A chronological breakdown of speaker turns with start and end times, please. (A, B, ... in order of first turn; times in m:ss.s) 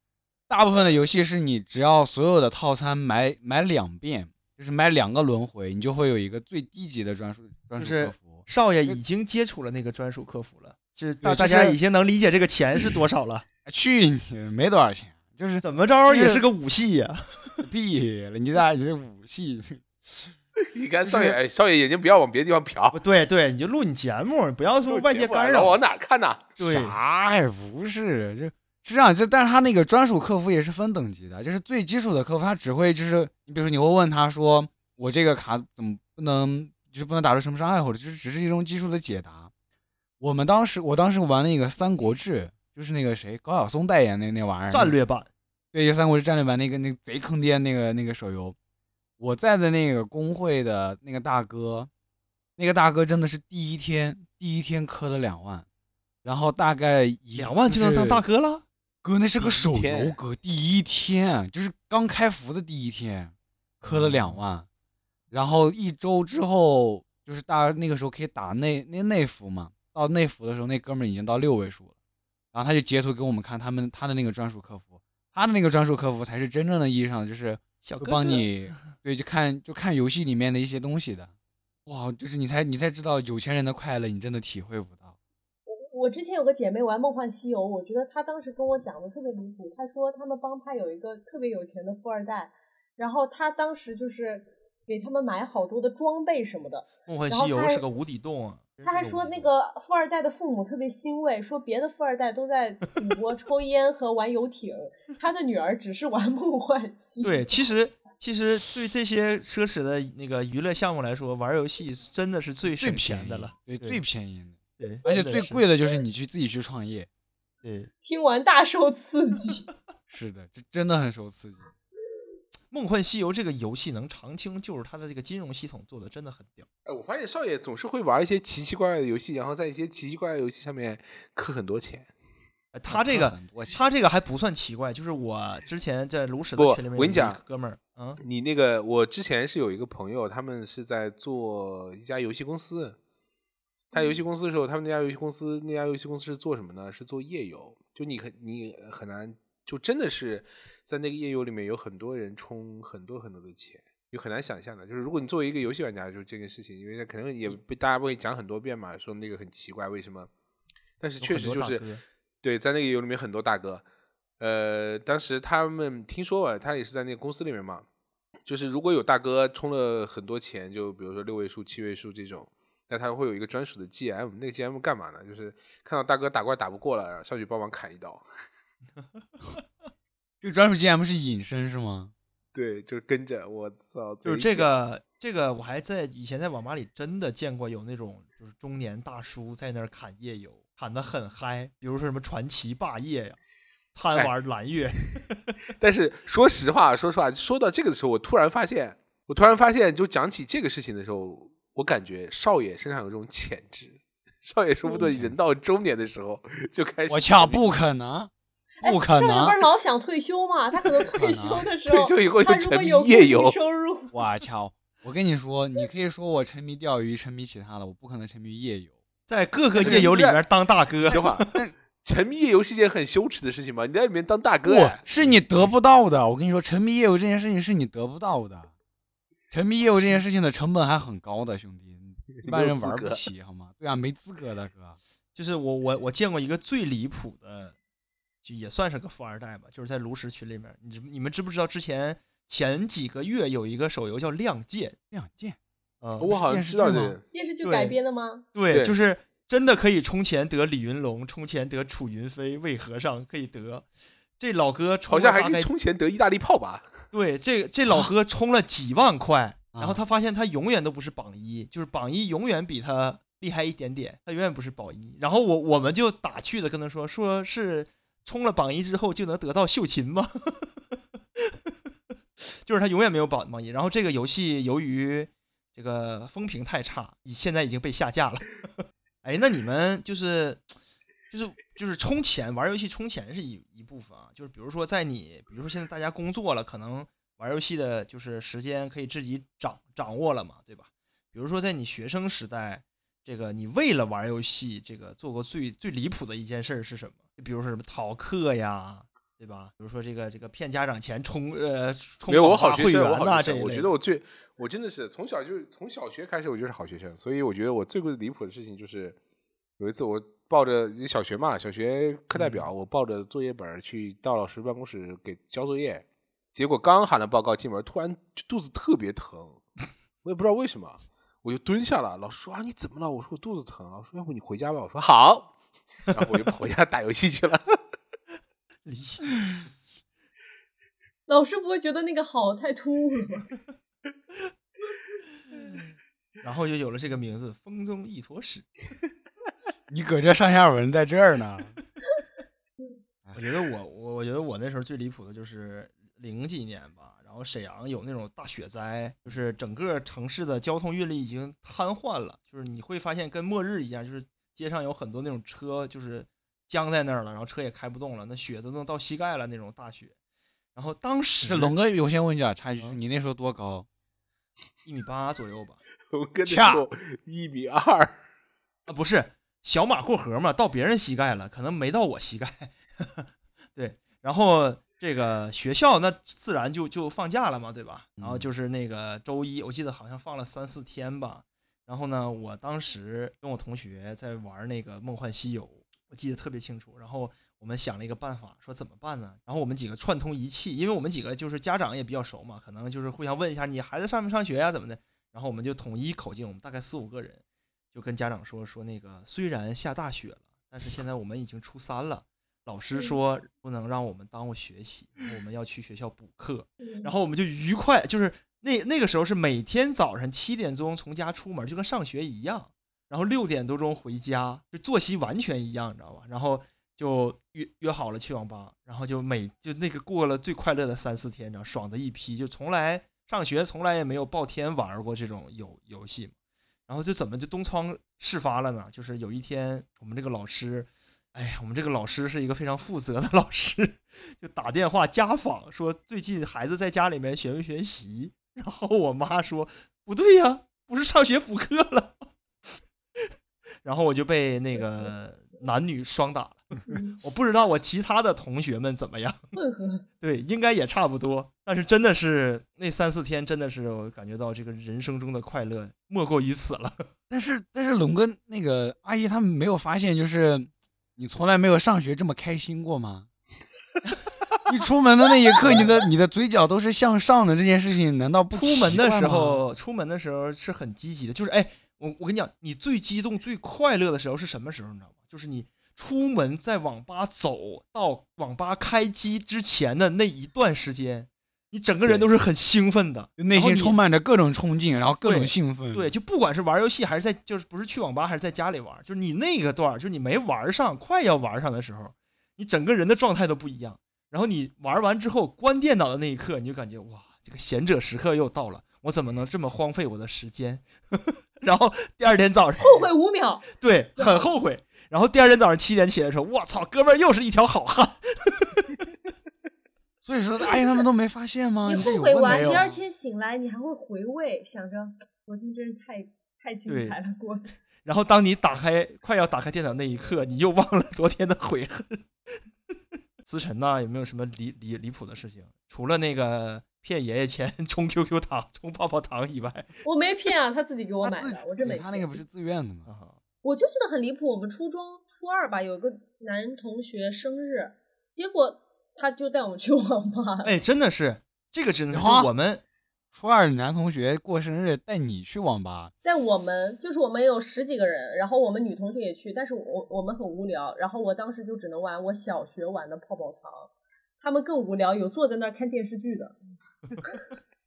0:00.5-0:09.0 A
0:07.8-0:13.5 B
0:11.2-0:11.8 A
0:13.7-0:16.4 A
0:15.6-0:17.6 B
0:17.6-0:20.3 A
0:20.7-0:23.0 C
0:21.1-0:21.4 B
0:22.9-0:25.8 B
0:24.8-0:26.6 C
0:26.6-0:27.0 B
0:26.6-0:39.5 A
0:40.2-0:45.0 A
0:44.7-0:45.3 B
0:45.7-0:48.6 A
0:49.2-0:51.9 A
0:52.6-0:55.7 A
0:56.2-0:58.2 A
0:57.4-0:58.6 B
0:59.0-1:04.7 A
0:59.4-1:00.2 C
1:03.9-1:04.4 B
1:05.3-1:11.9 A
1:12.5-1:21.3 A
1:17.8-1:18.5 B
1:21.9-1:25.2 A
1:25.7-1:37.8 D
1:37.1-1:39.5 B
1:38.8-1:47.5 D
1:47.2-1:54.0 B
1:52.6-1:57.1 A
1:54.8-1:55.6 B
1:57.6-1:57.9 B
1:58.0-1:59.7 D
2:00.1-2:01.6 A
2:02.7-2:06.7 B
2:06.9-2:12.1 C
2:12.7-2:18.2 B
2:12.9-2:13.8 A
2:16.6-2:17.4 C
2:18.2-2:23.0 C
2:23.9-2:40.3 C
2:41.0-2:41.8 C
2:41.2-2:42.0 B
2:42.4-2:43.8 C
2:44.4-2:47.8 C
2:48.5-2:58.2 C
3:00.4-3:02.1 A
3:02.5-3:04.7 C
3:04.2-3:13.4 B
3:14.0-3:15.4 B
3:15.8-3:27.6 C
3:25.0-3:25.3 A
3:27.1-3:28.3 A
3:28.8-3:34.1 D
3:28.8-3:29.6 A
3:31.0-3:31.7 A
3:31.9-3:33.6 C
3:34.1-3:39.0 A
3:39.3-3:41.5 B
3:39.8-3:40.4 C
3:39.8-3:40.3 A
3:41.1-3:41.7 A
3:41.1-3:41.5 C
3:42.0-3:45.7 C
3:44.6-3:48.7 A
3:49.5-3:55.0 A
3:52.4-3:53.2 C
3:55.4-3:57.8 B
3:58.4-4:05.0 B
4:05.1-4:05.6 A
4:06.0-4:06.3 B
4:06.2-4:07.2 C
4:06.3-4:07.2 A
4:07.3-4:08.4 D
4:07.6-4:08.0 B
4:08.6-4:13.9 B
4:08.7-4:09.0 C
4:14.4-4:15.7 B
4:15.1-4:16.9 C
4:17.1-4:30.7 B
4:19.8-4:20.0 A
4:32.6-4:38.7 B
4:39.2-4:40.7 B
4:41.3-5:03.9 B
5:02.3-5:09.2 C
5:09.8-5:19.6 C
5:12.4-5:12.6 B
5:20.2-5:25.5 C
5:26.1-5:27.8 C
5:28.9-5:29.4 B
5:31.3-5:33.5 D
5:36.4-5:38.7 B
5:39.9-5:41.8 A
5:43.4-6:00.1 B
6:00.8-6:01.8 B
6:01.4-6:03.9 A
6:04.8-6:05.8 B
6:06.1-6:08.2 C
6:06.5-6:06.8 A
6:08.9-6:37.4 B
6:18.2-6:18.5 A
6:37.9-7:06.3 B
6:46.8-6:47.1 D
7:06.9-7:22.2 B
7:23.8-7:26.7 B
7:26.9-7:27.2 D
7:27.2-7:29.4 B
7:29.5-7:30.1 D
7:30.2-7:37.1 B
7:37.3-7:43.3 A
7:44.7-7:49.6 A
7:45.6-7:46.0 B
7:48.6-8:04.0 B
8:03.4-8:06.1 A
8:05.2-8:23.0 B
8:22.8-8:24.5 D
8:23.8-8:29.0 B
8:30.2-8:33.0 A
8:30.7-8:31.1 D
8:31.9-8:37.7 D
8:32.5-8:32.9 B
8:36.9-8:37.2 B
8:38.0-8:42.2 B
8:43.4-8:50.0 B
8:50.0-8:52.4 D
8:51.2-8:53.1 A
8:53.1-8:53.4 B
8:53.6-9:00.8 D
9:00.6-9:02.8 B
9:02.1-9:02.5 A
9:03.3-9:06.1 A
9:06.2-9:16.5 D